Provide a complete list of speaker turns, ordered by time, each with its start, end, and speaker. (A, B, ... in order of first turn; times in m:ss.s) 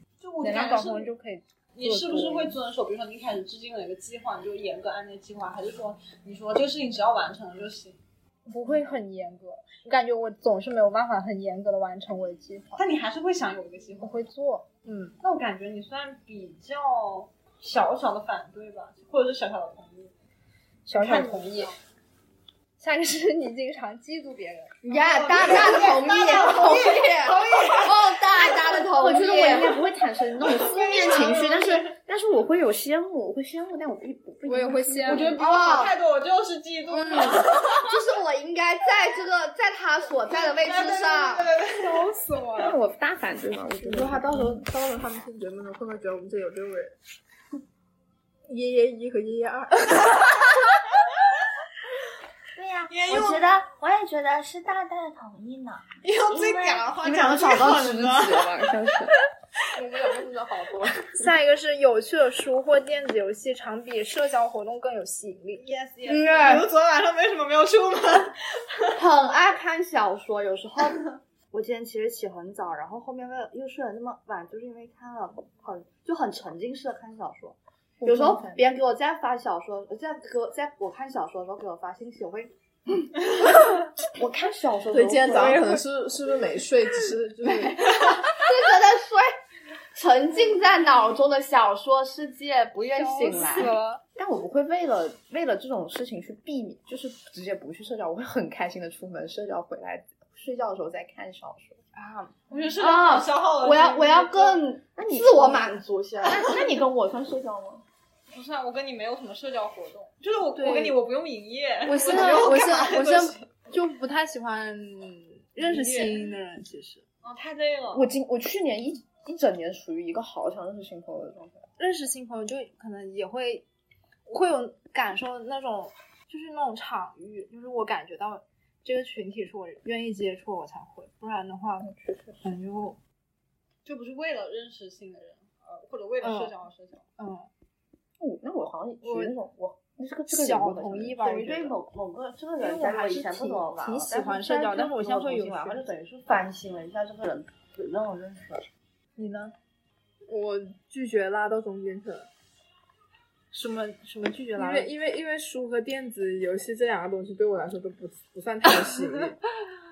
0:00.2-0:01.1 A
0:00.4-0:02.6 B
0:01.7-0:08.0 A
0:08.5-0:12.8 B
0:12.8-0:14.2 A
0:14.0-0:15.2 B
0:15.2-0:20.1 A
0:20.8-0:21.7 B
0:20.9-0:21.8 A
0:22.8-0:24.8 B
0:24.8-0:29.8 C
0:24.9-0:28.2 A
0:28.9-0:35.4 D
0:30.4-0:32.0 A
0:30.8-0:31.4 C
0:34.4-0:35.4 B
0:35.0-0:37.9 A
0:35.4-0:36.0 C
0:36.9-0:41.5 C
0:40.3-0:42.1 A
0:41.8-0:42.8 B
0:42.6-0:44.7 D
0:43.8-0:46.9 E
0:48.5-0:50.5 E
0:52.5-0:57.0 C
0:52.9-0:53.5 A
0:56.0-0:58.7 A
0:57.0-0:59.1 D
0:59.8-1:00.2 E
1:01.2-1:05.6 B
1:05.6-1:08.9 A
1:06.0-1:06.7 C
1:08.9-1:25.8 C
1:18.0-1:18.7 D
1:24.2-1:25.6 D
1:24.9-1:27.8 E
1:27.4-1:29.3 C
1:29.9-1:33.7 C
1:32.9-1:34.0 B
1:33.3-1:41.8 D
1:42.5-1:44.6 A
1:42.8-1:46.6 C
1:45.0-1:47.8 D
1:48.3-1:53.5 A
1:50.6-1:50.9 C
1:51.8-1:57.0 B
1:52.0-1:52.7 C
1:55.6-1:56.2 A
1:57.2-1:58.1 A
1:57.9-2:01.6 D
2:01.8-2:03.6 B
2:04.3-2:11.9 B
2:11.8-2:12.4 D
2:12.4-2:13.0 B
2:13.8-2:17.0 A
2:16.2-2:16.5 B
2:17.2-2:17.5 B
2:18.2-2:21.2 D
2:19.0-2:19.3 B
2:20.3-2:21.8 B
2:21.2-2:28.7 C
2:22.6-2:25.9 B
2:29.2-2:29.5 B
2:30.3-2:32.3 E
2:33.5-2:34.9 B
2:34.6-2:39.4 E